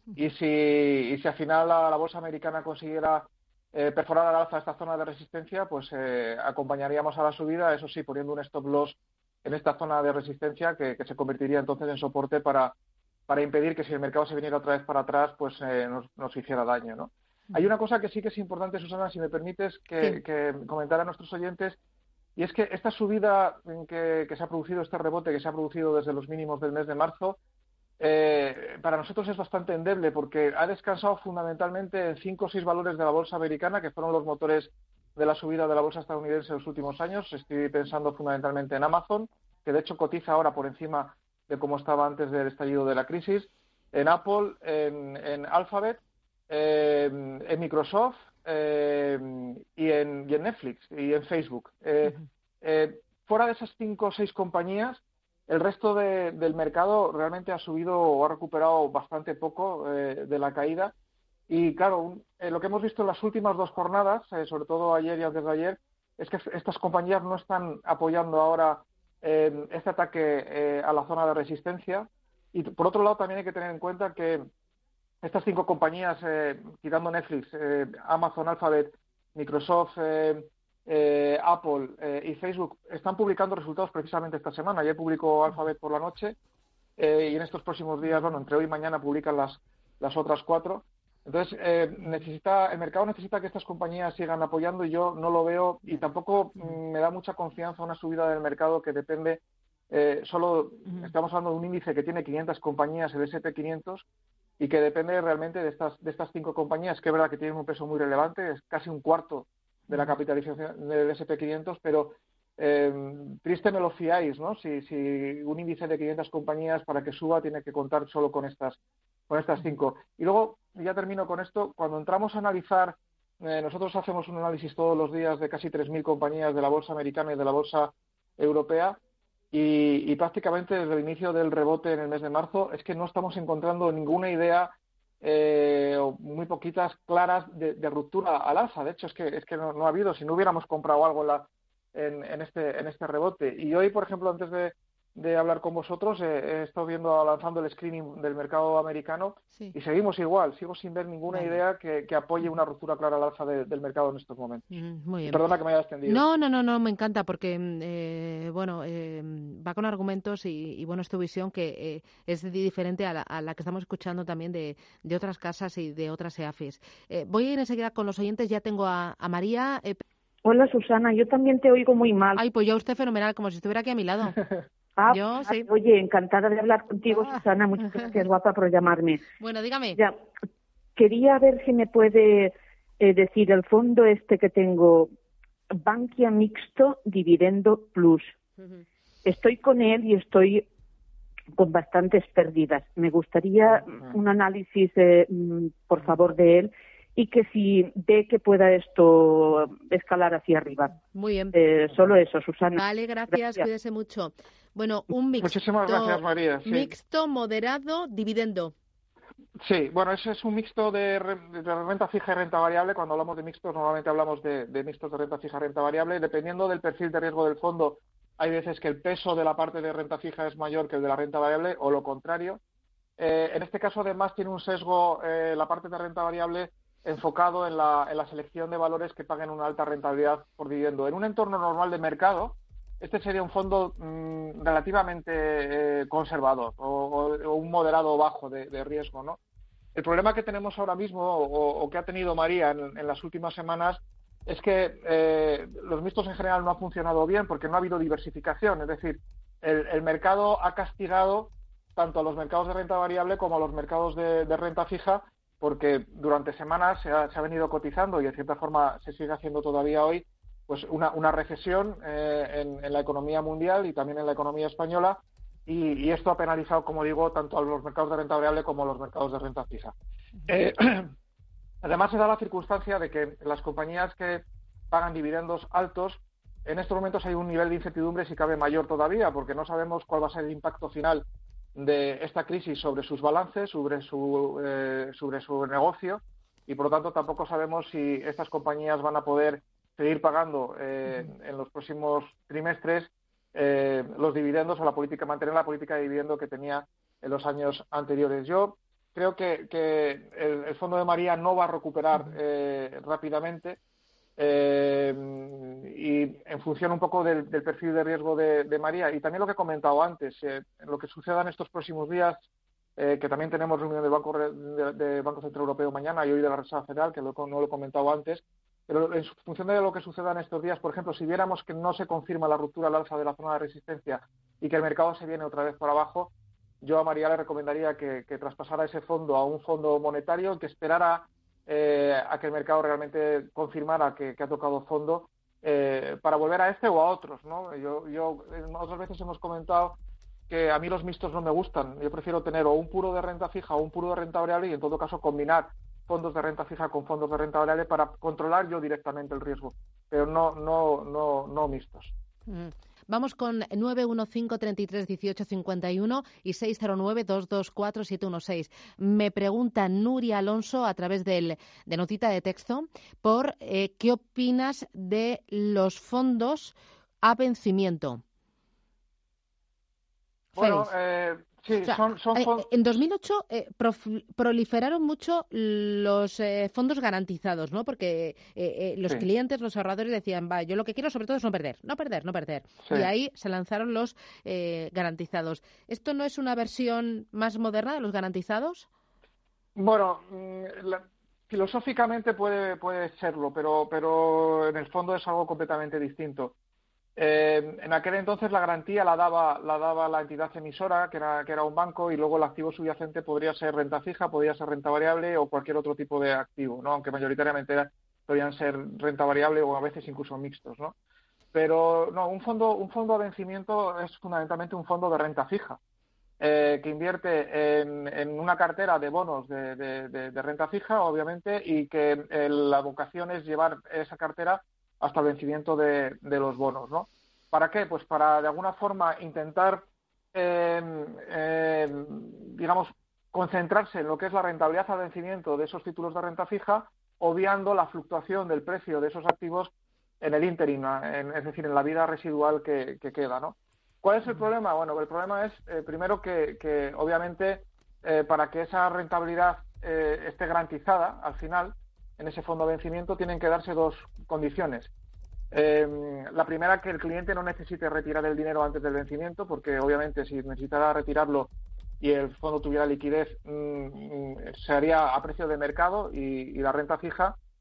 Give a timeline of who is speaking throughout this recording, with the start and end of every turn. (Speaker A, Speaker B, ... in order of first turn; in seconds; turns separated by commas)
Speaker A: 0.1-12.7, Speaker A: 13.3-21.8, Speaker A: 22.4-27.4, Speaker A: 28.0-60.9, Speaker A: 61.5-74.4, Speaker A: 75.2-86.3, Speaker A: 87.0-104.0, Speaker A: 104.6-118.8, Speaker B: 109.9-110.2, Speaker A: 119.3-129.0, Speaker A: 129.5-154.6, Speaker B: 151.3-151.6, Speaker B: 154.7-155.5, Speaker A: 155.2-156.2, Speaker B: 156.0-170.0, Speaker C: 170.4-172.4, Speaker B: 172.3-174.4, Speaker C: 175.0-179.2, Speaker B: 175.0-175.7, Speaker B: 177.8-178.1, Speaker B: 179.4-180.0, Speaker C: 180.9-185.1, Speaker C: 185.7-188.3, Speaker C: 189.2-190.6, Speaker C: 191.6-200.9, Speaker B: 201.0-201.6, Speaker C: 201.5-202.8, Speaker B: 202.7-208.7, Speaker A: 205.4-206.9, Speaker A: 209.6-222.6, Speaker A: 223.2-239.4, Speaker A: 239.9-269.9, Speaker A: 270.5-271.1, Speaker A: 271.8-303.8, Speaker A: 304.4-312.4, Speaker A: 313.0-340.0, Speaker A: 340.5-352.1, Speaker B: 352.5-368.2, Speaker B: 370.6-370.9, Speaker A: 370.6-372.7, Speaker B: 371.7-388.9, Speaker A: 389.8-396.5, Speaker A: 397.1-410.9, Speaker A: 411.5-415.8, Speaker A: 416.4-454.9, Speaker A: 455.5-467.3